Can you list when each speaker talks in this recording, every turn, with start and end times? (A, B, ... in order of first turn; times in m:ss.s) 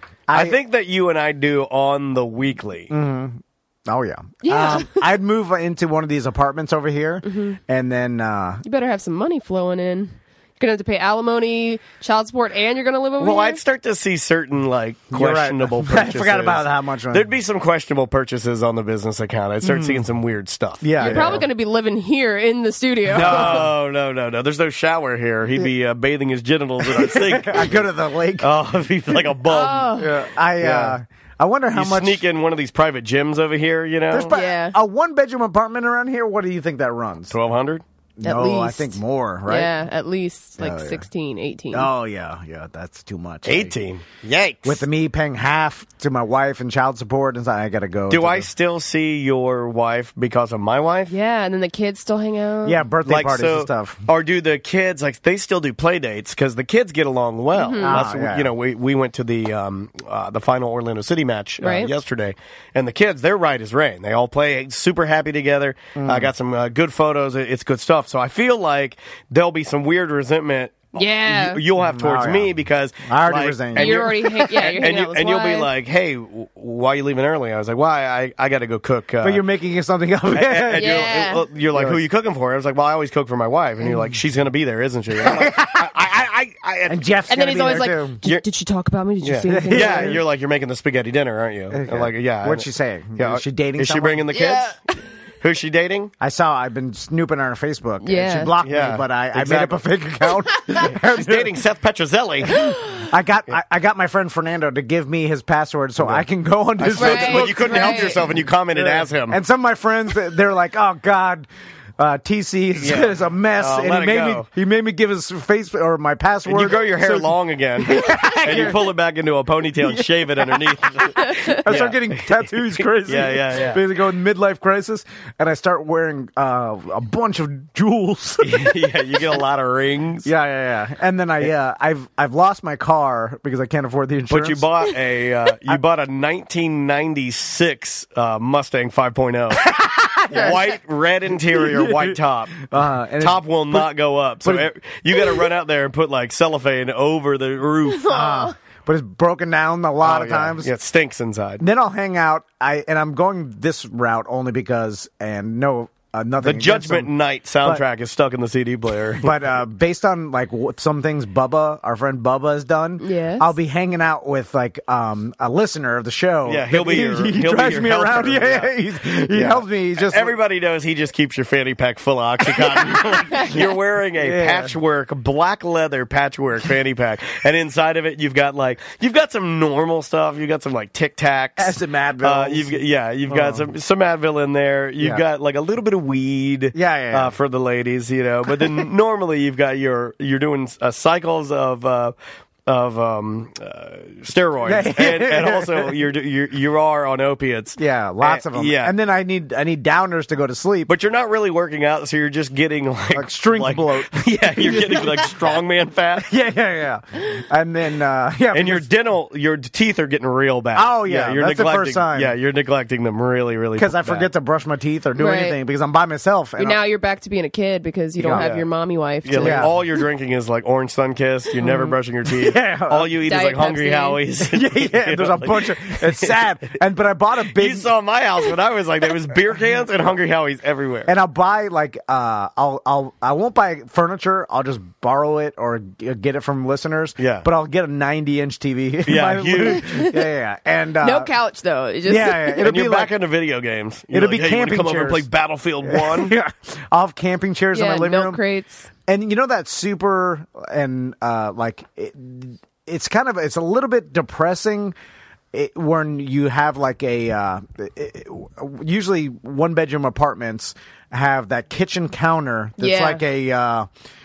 0:00.3-0:00.6 A
0:00.3-0:02.9 B
0:02.9-0:08.6 A
0:04.4-0:05.0 C
0:07.2-0:07.6 C
0:08.6-0:13.6 C
0:13.2-0:21.4 B
0:15.1-0:17.3 A
0:19.6-0:20.1 A
0:20.8-0:21.5 A
0:21.0-0:23.6 C
0:23.1-0:23.7 A
0:23.1-0:31.0 B
0:26.8-0:28.5 A
0:29.5-0:30.1 C
0:30.0-0:32.2 A
0:31.7-0:34.4 B
0:34.1-0:37.4 A
0:34.3-0:34.8 C
0:37.3-0:37.8 B
0:38.2-0:39.8 A
0:38.2-0:41.9 C
0:40.6-0:41.0 A
0:41.7-0:43.8 A
0:43.4-0:44.9 B
0:44.6-0:48.5 A
0:48.1-0:51.1 B
0:51.1-0:52.8 C
0:52.6-0:54.0 A
0:53.1-1:19.4 B
0:57.6-0:58.0 C
0:57.8-0:58.5 A
1:01.6-1:01.9 C
1:06.0-1:06.3 A
1:11.0-1:11.6 C
1:11.8-1:14.2 A
1:13.8-1:15.7 C
1:19.2-1:21.1 A
1:20.3-1:27.0 B
1:20.8-1:21.4 C
1:21.7-1:22.0 A
1:23.8-1:24.1 A
1:25.2-1:25.9 A
1:26.9-1:28.2 A
1:27.3-1:30.2 C
1:29.2-1:34.8 B
1:29.5-1:30.2 A
1:31.7-1:34.3 A
1:34.3-1:34.7 C
1:35.4-1:36.1 B
1:36.2-1:41.5 A
1:38.0-1:38.5 C
1:38.6-1:39.8 B
1:40.8-1:42.6 B
1:42.6-1:43.0 C
1:43.1-1:58.9 A
1:46.0-1:46.2 B
1:46.8-1:49.4 B
1:46.9-1:48.2 C
1:52.8-1:54.5 B
1:56.5-2:02.2 B
1:59.8-2:08.7 A
2:03.0-2:03.8 B
2:08.4-2:10.3 B
2:10.2-2:14.7 A
2:14.3-2:19.7 B
2:19.6-2:20.7 A
2:20.3-2:28.2 B
2:21.4-2:24.7 A
2:28.0-2:28.5 C
2:28.1-2:30.7 A
2:30.0-2:31.6 B
2:31.6-2:37.1 A
2:36.4-2:39.4 B
2:39.2-2:50.4 A
2:43.0-2:43.5 C
2:46.5-3:12.2 B
2:52.6-2:53.0 A
2:54.2-2:54.8 A
3:01.6-3:02.8 A
3:03.3-3:03.7 A
3:06.7-3:07.3 A
3:12.7-3:18.9 B
3:14.6-3:16.0 A
3:17.8-3:20.9 A
3:20.9-3:26.3 B
3:23.1-3:25.4 A
3:26.2-3:28.9 A
3:28.5-3:34.3 B
3:30.8-3:32.4 A
3:33.8-3:36.8 A
3:35.2-3:35.6 C
3:36.6-3:39.7 C
3:38.2-3:38.5 A
3:38.3-3:38.7 B
3:39.2-3:46.4 B
3:39.4-3:39.7 A
3:41.6-3:41.9 C
3:42.3-3:43.2 A
3:43.2-3:44.2 C
3:44.4-3:47.9 A
3:47.5-3:51.1 B
3:51.1-4:01.3 A
3:57.2-3:57.5 B
3:59.1-3:59.9 B
3:59.7-4:00.2 C
4:01.0-4:02.7 C
4:02.0-4:03.2 A
4:02.6-4:06.4 B
4:04.1-4:05.3 A
4:05.8-4:08.4 A
4:07.7-4:08.9 C
4:09.1-4:15.0 A
4:15.5-4:23.9 A
4:22.8-4:23.2 C